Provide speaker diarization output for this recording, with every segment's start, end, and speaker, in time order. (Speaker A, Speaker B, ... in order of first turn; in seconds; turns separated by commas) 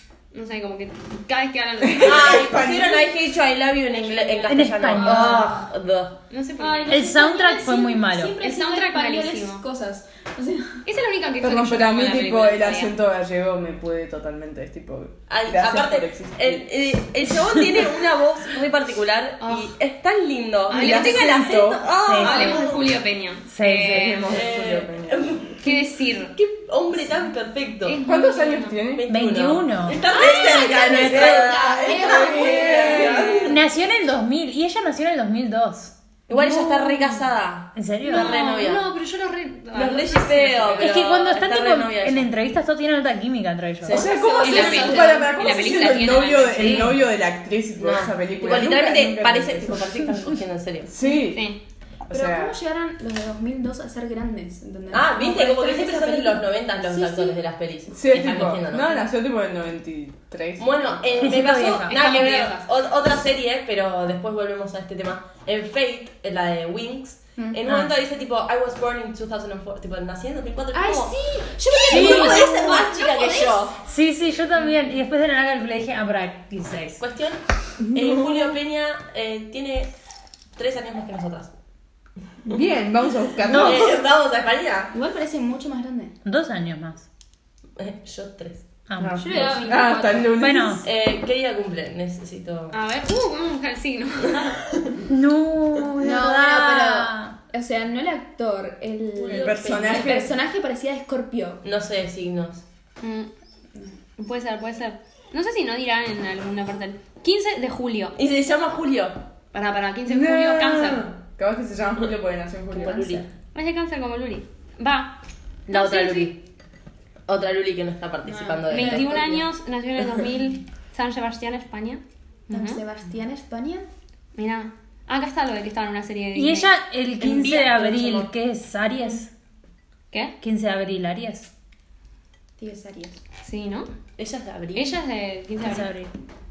Speaker A: 0.3-2.6, Speaker B: 1.8-3.1, Speaker C: 2.0-6.2, Speaker A: 3.9-5.6, Speaker D: 4.5-5.5, Speaker A: 6.3-7.4, Speaker E: 6.6-10.8, Speaker D: 6.9-8.4, Speaker A: 8.4-9.6, Speaker A: 10.8-12.9, Speaker B: 11.4-16.7, Speaker C: 15.3-22.9, Speaker A: 19.4-19.7, Speaker A: 20.7-21.7, Speaker B: 20.7-21.8, Speaker D: 22.0-22.6, Speaker A: 22.2-24.4, Speaker D: 23.5-24.2, Speaker B: 23.6-25.4, Speaker C: 24.3-25.8, Speaker A: 25.6-26.3, Speaker C: 26.3-28.0, Speaker A: 27.8-28.8, Speaker B: 28.0-29.1, Speaker C: 28.9-33.6, Speaker D: 29.1-31.5, Speaker A: 30.0-30.8, Speaker E: 30.4-33.3, Speaker B: 30.5-33.5, Speaker D: 33.4-37.2, Speaker C: 36.3-38.9, Speaker D: 37.7-38.4, Speaker A: 38.0-41.0, Speaker C: 39.7-42.3, Speaker D: 40.8-44.0, Speaker C: 43.8-44.9, Speaker B: 43.9-49.9, Speaker A: 44.0-46.9, Speaker E: 44.1-45.5, Speaker D: 46.5-47.0, Speaker C: 47.8-50.9, Speaker B: 50.9-51.5, Speaker E: 51.0-51.3, Speaker A: 51.3-51.6, Speaker B: 52.1-52.5, Speaker E: 52.1-57.4, Speaker C: 54.9-59.0, Speaker B: 57.9-60.8, Speaker C: 60.6-73.8, Speaker D: 61.2-62.0, Speaker A: 61.8-62.7, Speaker D: 67.7-67.9, Speaker E: 70.7-73.7, Speaker D: 71.9-72.8, Speaker D: 73.8-77.0, Speaker C: 77.0-79.9, Speaker B: 77.8-78.5, Speaker C: 80.5-81.5, Speaker B: 82.4-84.0, Speaker D: 83.5-83.8, Speaker C: 83.5-84.9, Speaker E: 84.9-86.2, Speaker D: 86.2-87.0, Speaker C: 87.8-88.7, Speaker D: 88.9-89.8, Speaker B: 89.0-90.8, Speaker A: 89.2-90.4, Speaker D: 90.3-90.8, Speaker C: 90.8-92.8, Speaker A: 92.7-94.6, Speaker D: 95.1-97.4, Speaker E: 96.0-101.6, Speaker C: 99.2-100.0, Speaker B: 99.3-100.3, Speaker C: 101.6-102.6, Speaker A: 103.0-103.3, Speaker A: 104.2-108.2, Speaker C: 108.2-109.2, Speaker A: 109.5-111.1, Speaker B: 110.0-113.2, Speaker C: 112.7-113.2, Speaker A: 113.5-115.2, Speaker C: 115.7-116.4, Speaker A: 115.7-116.3, Speaker C: 117.3-119.4, Speaker E: 118.2-119.3, Speaker A: 118.7-122.8, Speaker E: 122.5-123.9, Speaker A: 124.3-126.7, Speaker D: 126.3-129.3, Speaker C: 127.2-128.3, Speaker D: 130.4-131.5, Speaker E: 132.6-133.2, Speaker A: 133.4-133.9, Speaker C: 134.2-134.9, Speaker A: 134.7-135.9, Speaker D: 135.6-136.1